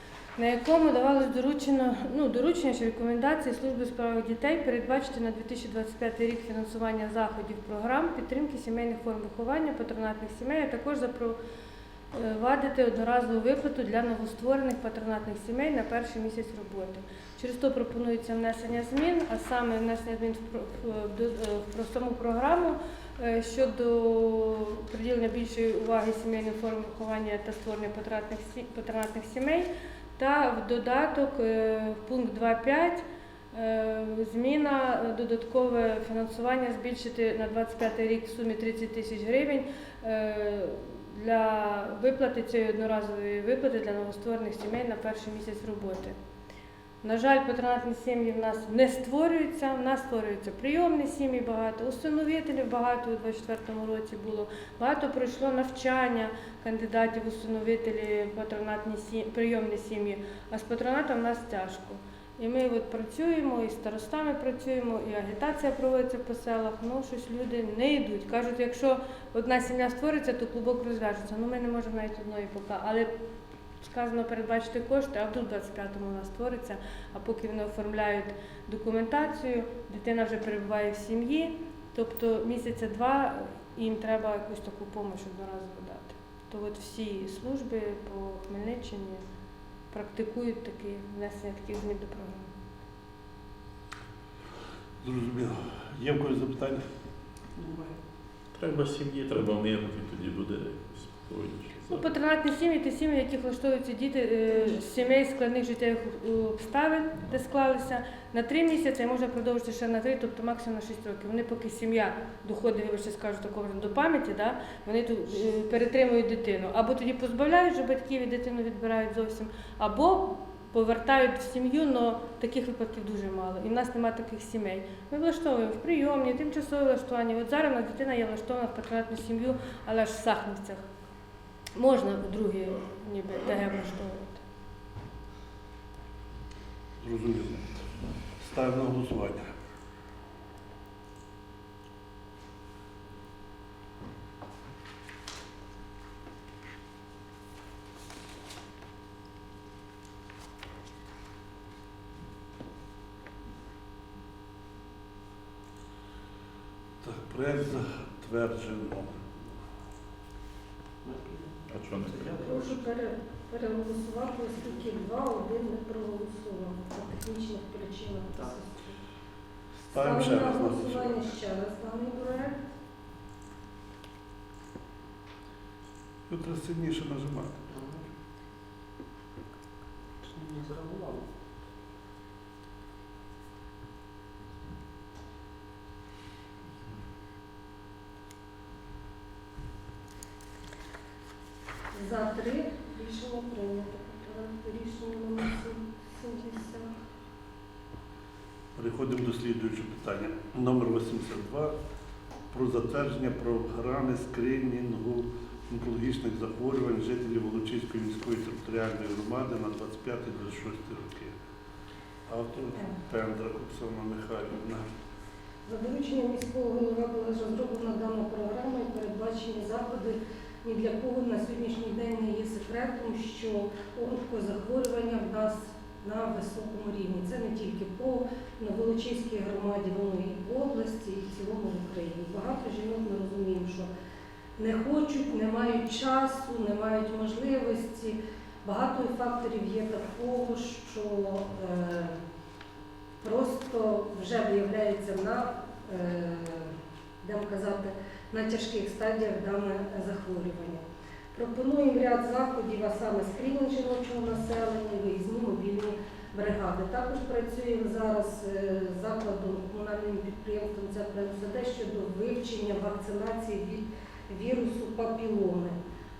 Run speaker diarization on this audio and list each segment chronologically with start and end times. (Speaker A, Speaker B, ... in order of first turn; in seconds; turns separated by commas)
Speaker A: 0.4-11.4, Speaker A: 12.1-46.1, Speaker A: 47.0-73.1, Speaker A: 73.8-89.2, Speaker A: 89.9-92.5, Speaker B: 95.0-96.8, Speaker C: 97.6-97.9, Speaker D: 98.5-102.1, Speaker A: 101.9-130.8, Speaker A: 131.7-134.4, Speaker B: 137.0-137.8, Speaker B: 138.4-139.5, Speaker B: 157.0-159.2, Speaker C: 161.0-162.8, Speaker D: 161.7-162.3, Speaker E: 162.4-169.0, Speaker B: 169.8-171.3, Speaker E: 169.9-172.7, Speaker B: 176.3-177.6, Speaker C: 177.7-178.0, Speaker C: 180.2-181.3, Speaker E: 191.9-196.9, Speaker B: 198.8-201.7, Speaker B: 202.5-211.3, Speaker B: 212.3-214.8, Speaker E: 215.7-233.9, Speaker E: 234.6-242.1, Speaker E: 243.2-246.7, Speaker E: 247.2-250.8, Speaker E: 251.3-265.8